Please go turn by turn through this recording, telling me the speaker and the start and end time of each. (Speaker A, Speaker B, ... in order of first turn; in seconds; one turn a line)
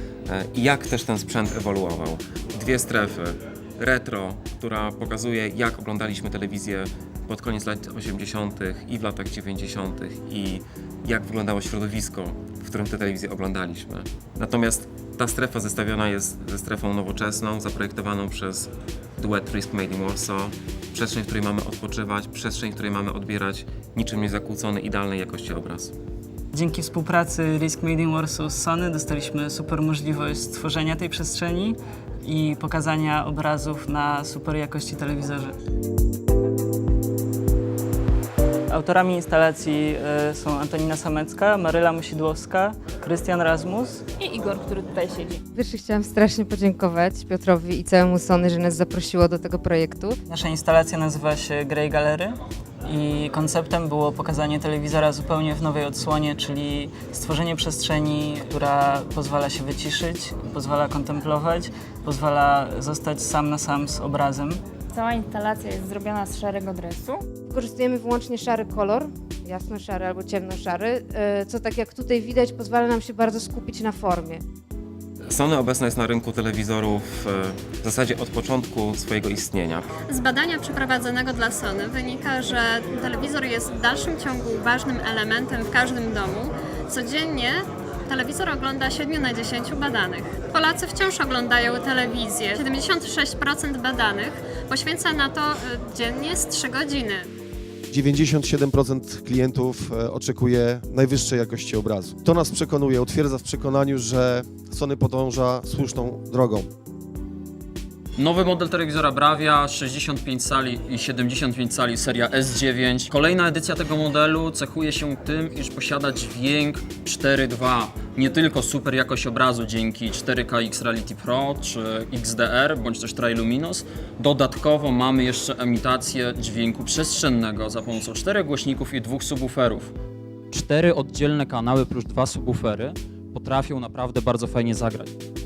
Speaker A: 0.3-26.0
Speaker B: 26.5-35.6
Speaker B: 38.7-44.1
Speaker C: 44.2-45.4
Speaker D: 45.5-50.2
Speaker B: 50.3-64.6
Speaker C: 64.9-67.2
Speaker D: 67.5-74.4
Speaker A: 75.3-79.9
Speaker E: 80.1-97.3
Speaker F: 97.9-106.7
Speaker G: 108.2-129.9
Speaker G: 130.5-135.1